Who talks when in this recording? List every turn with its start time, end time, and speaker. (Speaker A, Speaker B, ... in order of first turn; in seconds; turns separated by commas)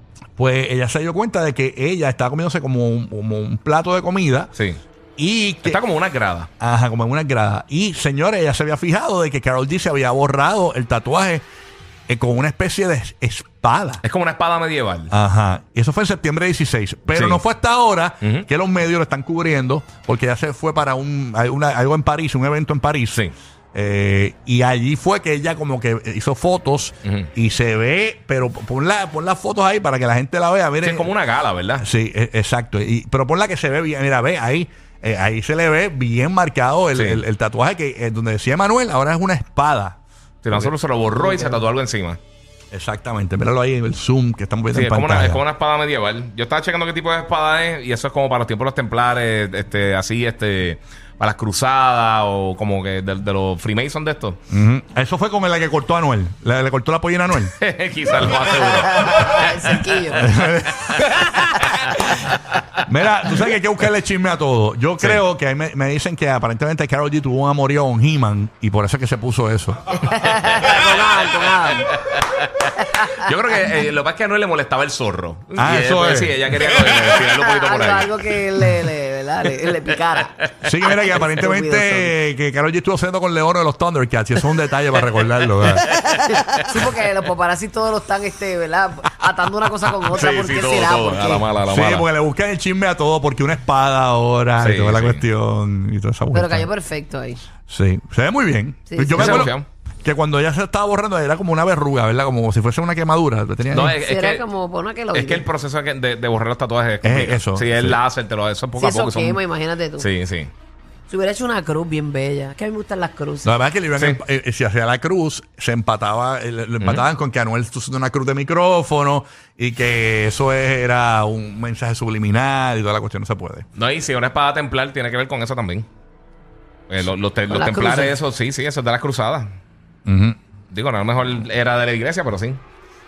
Speaker A: 0.4-4.5, Speaker B: 4.6-4.8, Speaker A: 5.2-5.8, Speaker B: 5.6-6.5, Speaker A: 6.6-11.4, Speaker A: 12.1-14.0, Speaker B: 14.0-15.1, Speaker A: 15.1-31.1, Speaker B: 17.1-17.4, Speaker B: 18.2-18.5, Speaker B: 30.8-31.9, Speaker A: 31.8-40.0, Speaker B: 37.0-37.2, Speaker B: 40.4-42.2, Speaker C: 41.3-41.6, Speaker A: 42.7-45.4, Speaker B: 44.7-54.4, Speaker A: 54.5-57.5, Speaker B: 57.5-59.6, Speaker C: 58.3-60.4, Speaker A: 60.1-62.0, Speaker B: 60.7-62.9, Speaker A: 62.8-70.0, Speaker C: 70.0-72.0, Speaker B: 71.9-78.3, Speaker C: 72.8-73.3, Speaker A: 75.6-76.5, Speaker C: 76.8-82.2, Speaker A: 80.6-85.9, Speaker B: 85.1-85.6, Speaker C: 85.8-91.5, Speaker B: 90.1-92.1, Speaker A: 91.7-96.7, Speaker B: 94.6-95.2, Speaker C: 96.3-97.4, Speaker A: 97.7-104.0, Speaker C: 98.9-99.5, Speaker B: 99.2-99.7, Speaker B: 103.7-104.5, Speaker C: 104.0-105.5, Speaker B: 105.1-109.4, Speaker A: 107.0-108.0, Speaker C: 108.8-110.1, Speaker B: 110.0-110.5, Speaker C: 111.1-113.5, Speaker A: 113.5-123.7, Speaker B: 116.8-117.0, Speaker B: 123.8-125.9, Speaker B: 126.9-129.5, Speaker C: 127.5-128.2, Speaker A: 130.1-130.4, Speaker B: 130.7-132.6